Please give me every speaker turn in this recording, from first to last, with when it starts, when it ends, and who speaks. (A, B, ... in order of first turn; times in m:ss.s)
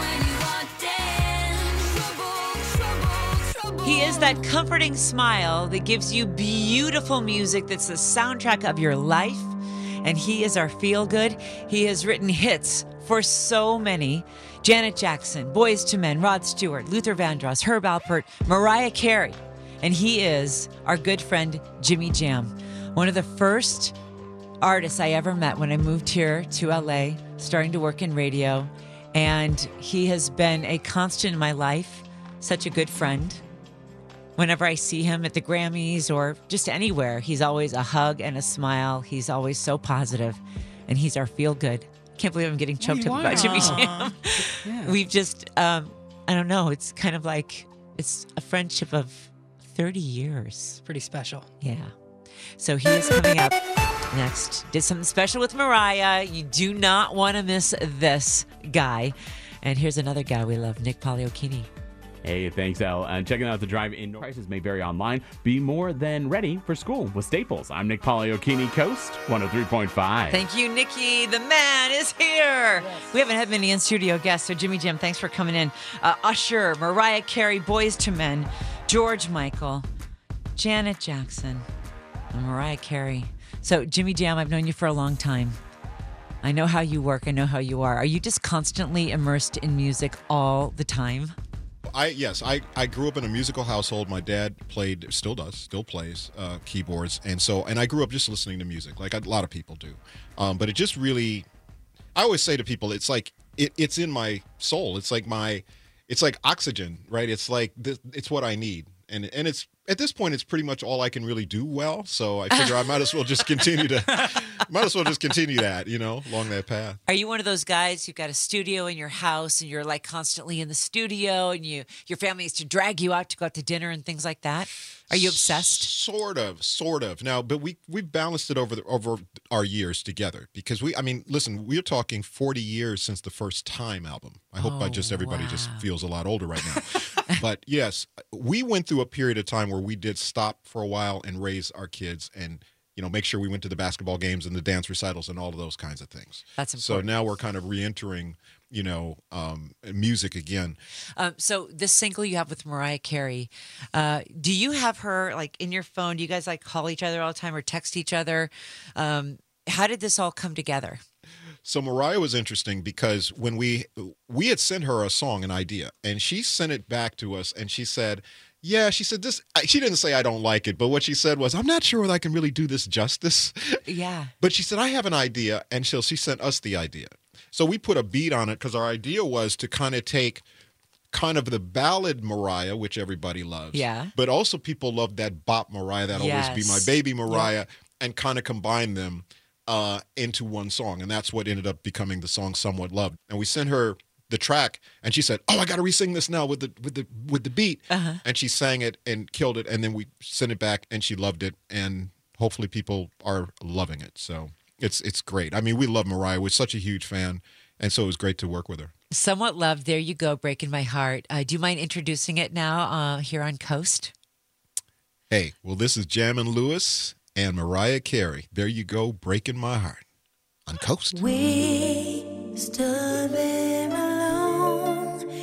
0:00.2-0:03.7 A
0:03.8-0:24.0 B
0:24.6-0:33.4 B
0:34.4-0:50.8 B
0:42.8-0:44.1 C
0:44.6-0:44.9 C
0:50.9-0:51.4 C
0:51.6-0:51.9 B
0:52.6-1:01.7 B
1:02.2-1:10.4 D
1:10.3-1:19.9 B
1:20.6-1:21.7 B
1:22.3-1:25.6 B
1:26.4-1:31.4 B
1:31.9-1:41.5 E
1:42.2-1:57.0 E
1:52.5-1:52.9 B
1:57.1-2:05.9 B
2:05.1-2:30.8 E
2:14.6-2:15.9 B
2:26.6-2:27.1 B
2:31.2-2:41.0 B
2:41.6-2:53.8 E
2:53.9-2:54.3 B
2:54.4-3:00.4 E
3:01.1-3:28.9 E
3:03.7-3:04.1 B
3:06.1-3:07.5 B
3:17.9-3:18.2 B
3:29.1-3:34.1 B
3:35.3-3:40.0 E
3:40.7-3:41.3 E
3:41.2-3:45.2 A